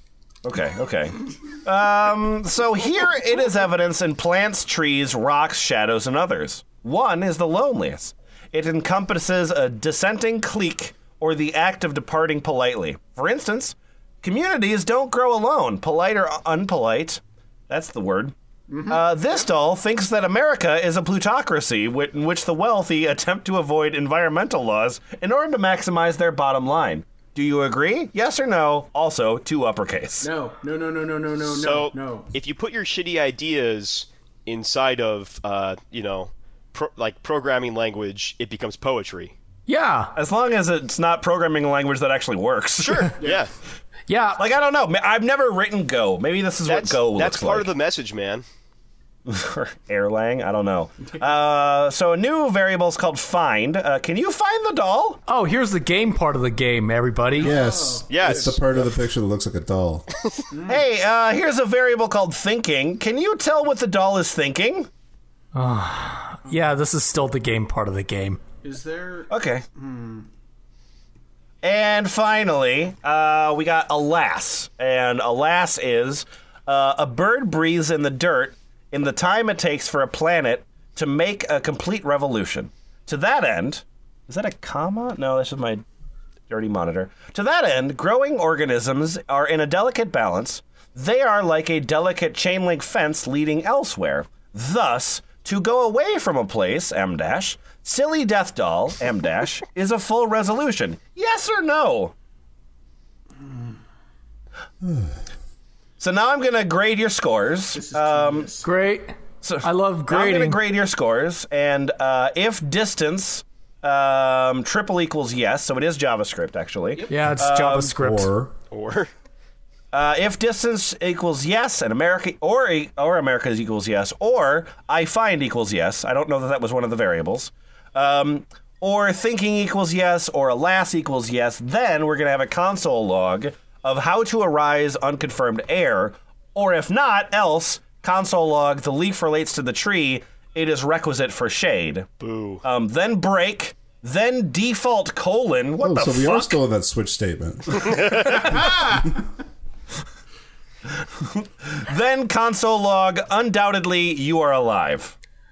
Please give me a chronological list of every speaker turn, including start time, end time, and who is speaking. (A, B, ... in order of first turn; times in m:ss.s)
0:00.4-0:18.3 A
0:18.7-0:19.0 B
0:18.8-0:30.3 A
0:30.2-0:32.3 B
0:31.4-0:39.3 C
0:39.7-0:40.1 D
0:40.1-0:43.1 A
0:42.8-0:43.5 C
0:44.1-0:44.4 D
0:44.4-0:47.7 A
0:46.6-0:48.4 C
0:49.2-0:55.2 A
0:55.3-0:57.5 D
0:57.4-0:58.6 B
0:57.4-1:00.1 E
0:58.1-0:58.6 C
1:00.5-1:00.8 B
1:00.6-1:04.9 A
1:05.5-1:08.4 D
1:08.6-1:10.3 B
1:09.3-1:09.6 A
1:11.6-1:25.8 A
1:26.5-1:42.1 A
1:44.8-1:45.1 E
1:46.0-1:48.6 A
1:47.7-1:48.6 B
1:48.6-1:50.6 D
1:49.4-1:57.9 A
1:57.1-1:58.4 D
1:57.4-1:58.5 E
1:58.7-1:59.1 C
1:59.9-2:22.1 A
2:22.2-2:22.6 C
2:22.6-2:26.6 A
2:25.8-2:28.4 E
2:31.2-2:35.1 A